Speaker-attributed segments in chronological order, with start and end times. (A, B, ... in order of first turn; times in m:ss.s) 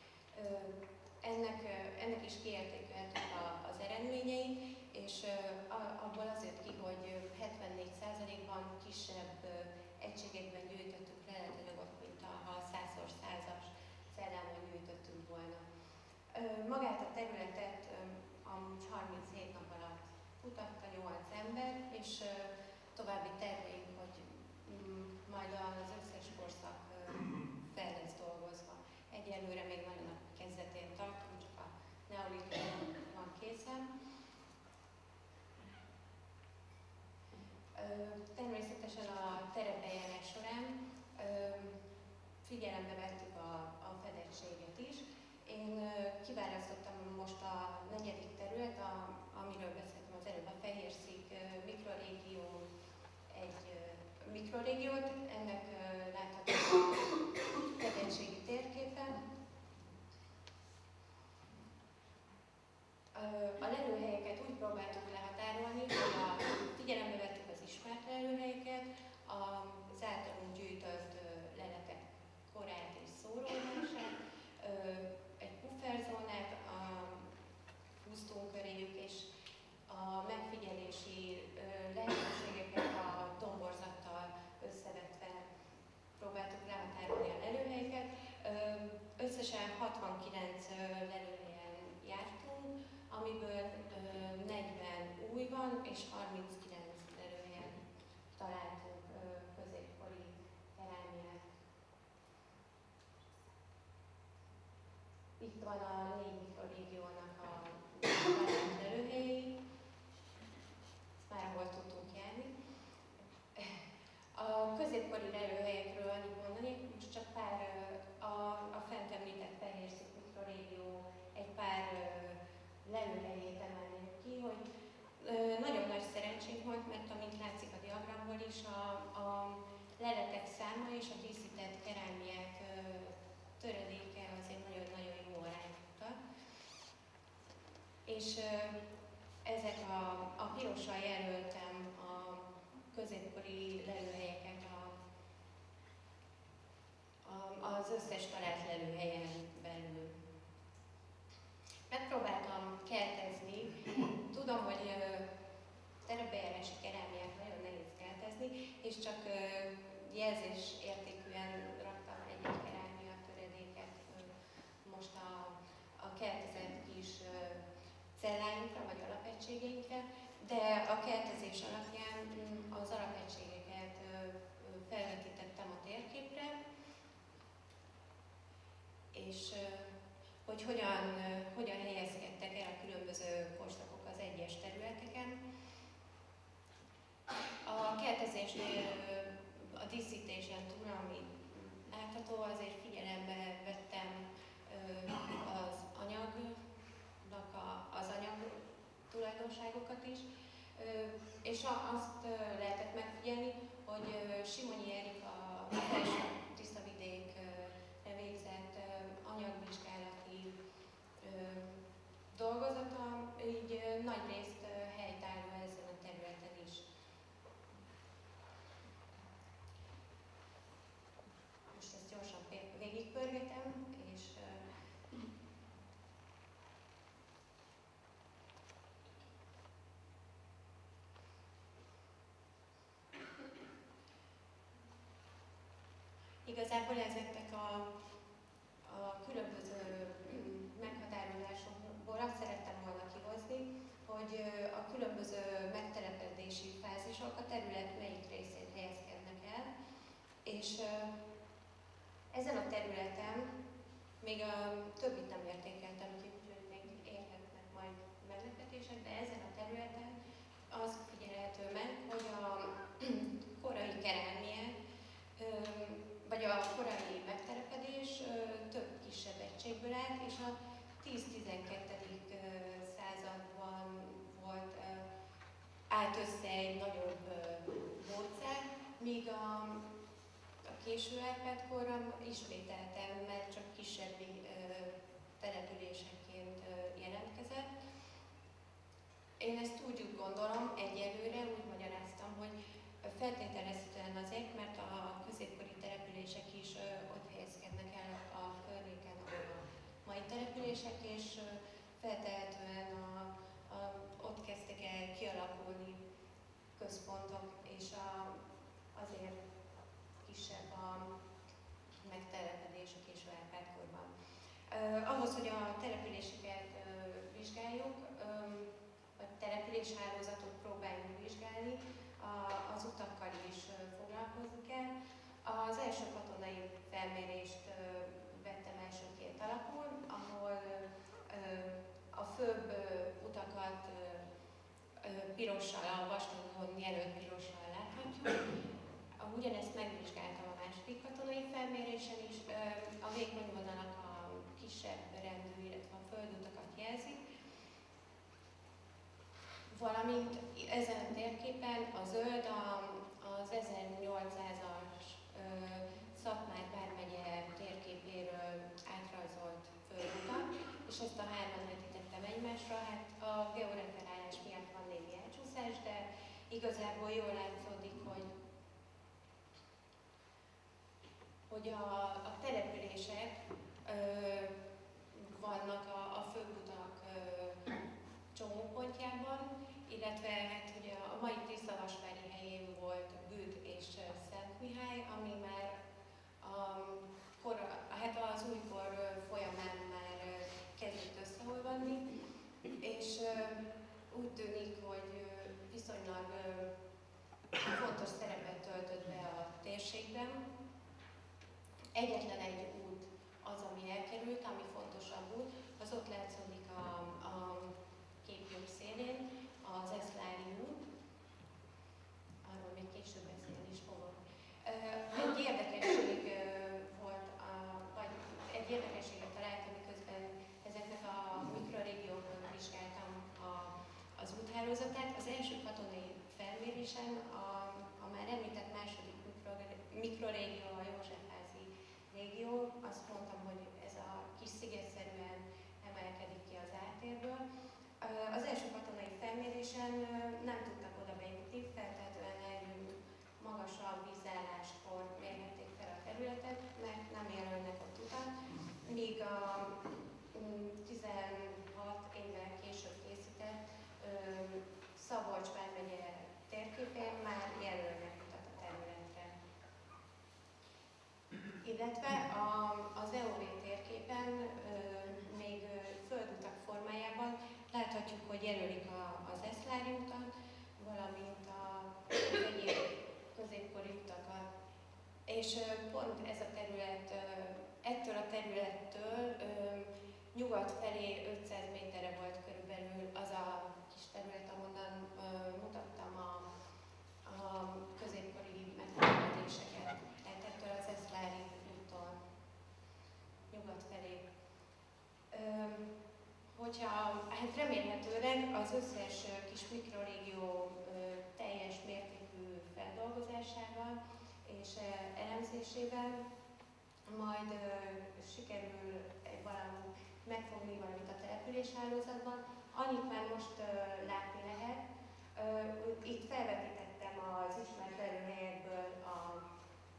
0:00.3-0:15.6 A
0:16.3-0:33.9 A
0:37.8-0:41.8 A
0:42.4-0:52.7 A
0:53.3-0:59.2 A
1:03.1-1:17.3 A
1:18.0-1:19.3 A
1:19.9-1:25.5 A
1:26.2-1:37.8 A
1:38.3-1:41.4 A
1:45.4-1:49.6 A
1:51.2-1:52.5 A
1:53.6-1:53.8 A
1:54.3-2:04.6 A
2:05.2-2:16.2 A
2:18.1-2:18.8 A
2:19.4-2:25.0 A
2:27.2-2:30.2 A
2:31.9-2:35.3 A
2:36.0-2:47.6 A
2:48.2-2:56.6 A
2:59.1-3:05.4 A
3:07.6-3:16.6 A
3:17.2-3:30.6 A
3:31.2-3:36.9 A
3:41.7-3:44.7 A
3:56.4-3:57.9 A
3:58.8-4:09.7 A
4:10.4-4:11.1 A
4:12.3-4:13.5 A
4:14.2-4:20.2 A
4:20.7-4:24.8 A
4:25.4-4:35.1 A
4:35.9-4:39.8 A
4:40.7-4:47.7 A
4:49.4-5:06.0 A
5:06.8-5:08.4 A
5:08.9-5:09.4 A
5:10.2-5:11.2 A
5:12.0-5:14.1 A
5:14.7-5:24.9 A
5:25.4-5:34.3 A
5:35.0-5:38.5 A
5:39.2-5:47.2 A
5:49.7-6:08.3 A
6:11.5-6:14.5 A
6:15.1-6:17.6 A
6:18.3-6:25.8 A
6:26.4-6:32.1 A
6:32.8-6:36.7 A
6:37.6-6:40.4 A
6:42.0-6:50.8 A
6:52.4-7:17.4 A
7:18.0-7:28.3 A
7:28.8-7:39.3 A
7:41.6-7:54.5 A
7:55.3-8:06.5 A
8:07.2-8:12.2 A
8:13.5-8:14.3 A
8:15.3-8:15.9 A
8:16.5-8:26.2 A
8:27.1-8:34.8 A
8:35.3-8:39.4 A